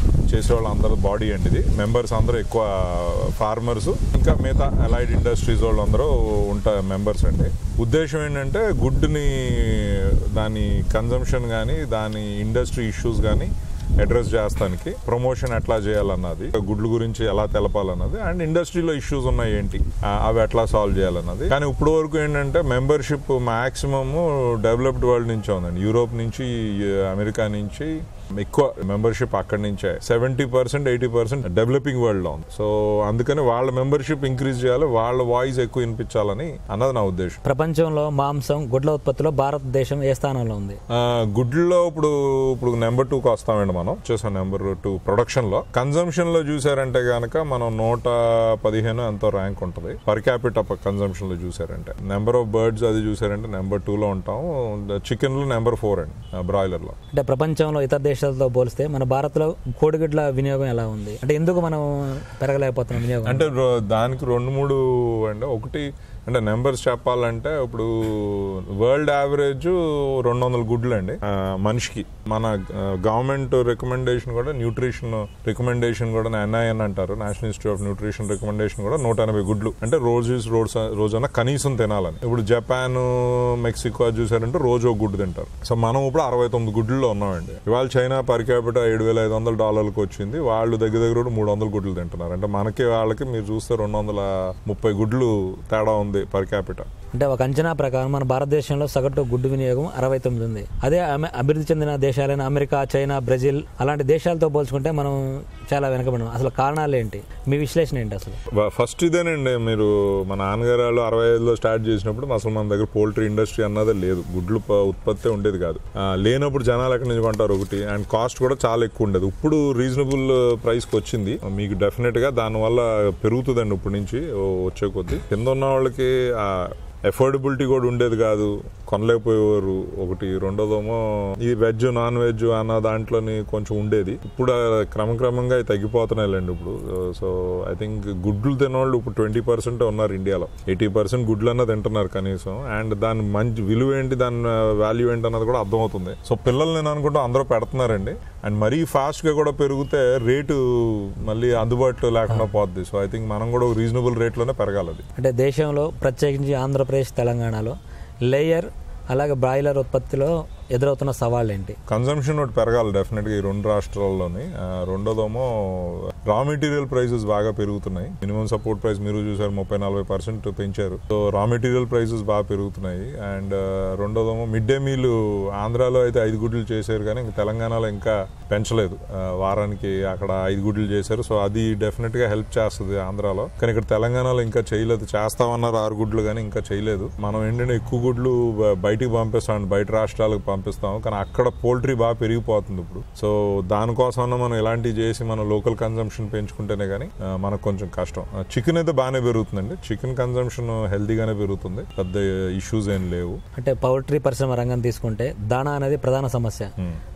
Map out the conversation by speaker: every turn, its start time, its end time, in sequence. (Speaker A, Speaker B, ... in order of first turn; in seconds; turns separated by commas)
Speaker A: 0.3-37.4, Speaker B: 37.4-40.8, Speaker A: 40.9-57.0, Speaker B: 57.1-63.5, Speaker A: 63.2-96.9, Speaker B: 97.1-105.2, Speaker B: 105.7-108.4, Speaker A: 108.5-155.0, Speaker B: 155.2-157.8, Speaker B: 158.3-161.8, Speaker A: 161.9-203.4, Speaker B: 203.6-206.7